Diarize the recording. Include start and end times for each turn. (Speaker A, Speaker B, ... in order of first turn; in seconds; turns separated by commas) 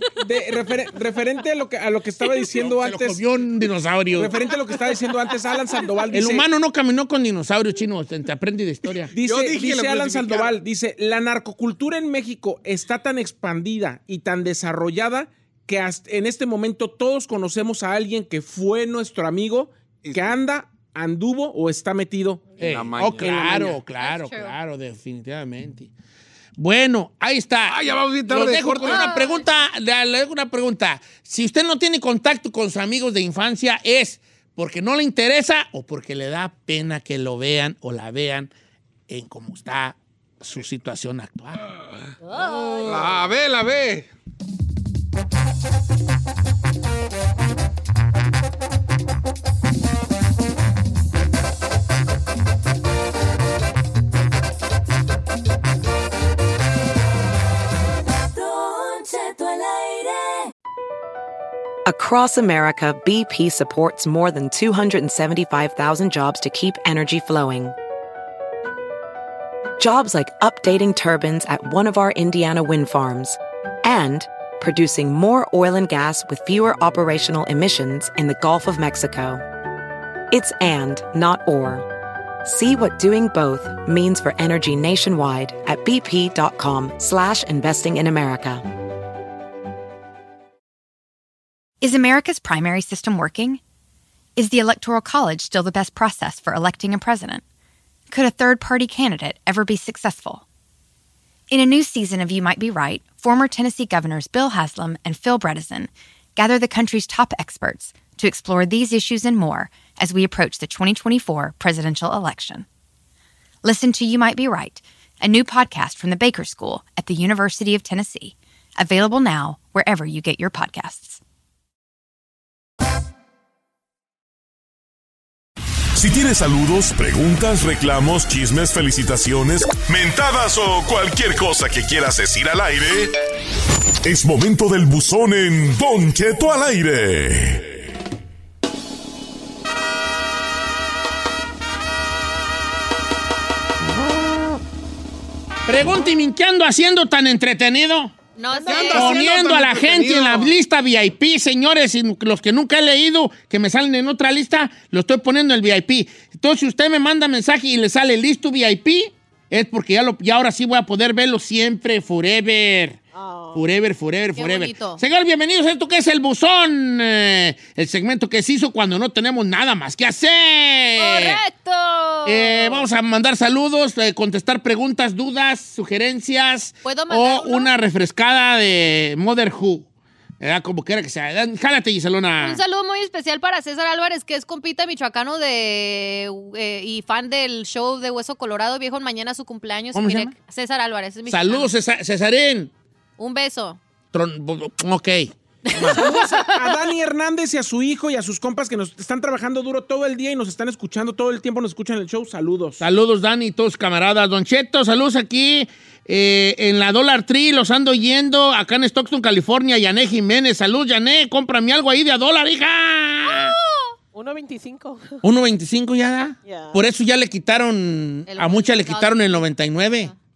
Speaker A: 0.2-3.2, Speaker B: 2.6-4.4, Speaker A: 4.2-6.5, Speaker B: 6.1-9.1, Speaker A: 9.1-22.6, Speaker C: 9.2-10.6, Speaker C: 20.0-20.4, Speaker B: 22.6-25.9, Speaker C: 22.6-23.8, Speaker D: 24.0-24.6, Speaker B: 26.6-38.5, Speaker C: 27.7-29.2, Speaker D: 28.9-29.4, Speaker B: 39.1-41.7, Speaker D: 42.2-43.2, Speaker C: 42.4-44.1, Speaker E: 58.3-60.5, Speaker F: 61.9-67.8, Speaker F: 69.8-79.4, Speaker F: 80.3-81.9, Speaker F: 82.4-88.7, Speaker G: 91.8-93.6, Speaker G: 94.4-97.4, Speaker G: 98.1-100.5, Speaker G: 101.5-112.7, Speaker G: 113.6-121.2, Speaker H: 126.0-133.2, Speaker H: 134.1-137.7, Speaker B: 145.7-148.2, Speaker D: 148.4-149.2, Speaker I: 148.5-148.9, Speaker C: 148.7-150.5, Speaker B: 148.9-163.0, Speaker I: 163.1-163.6, Speaker B: 163.5-171.4, Speaker D: 164.3-165.0, Speaker D: 171.0-172.9, Speaker B: 172.2-179.9, Speaker D: 176.8-177.7, Speaker B: 180.4-182.6, Speaker D: 182.4-191.7, Speaker B: 189.9-190.3, Speaker B: 191.3-192.7, Speaker D: 193.2-193.8, Speaker B: 194.1-196.0, Speaker D: 195.7-196.6, Speaker A: 195.9-202.8, Speaker B: 202.8-213.6, Speaker D: 213.2-213.9, Speaker I: 214.1-215.2, Speaker B: 215.2-220.1, Speaker I: 216.4-216.8, Speaker D: 218.3-219.5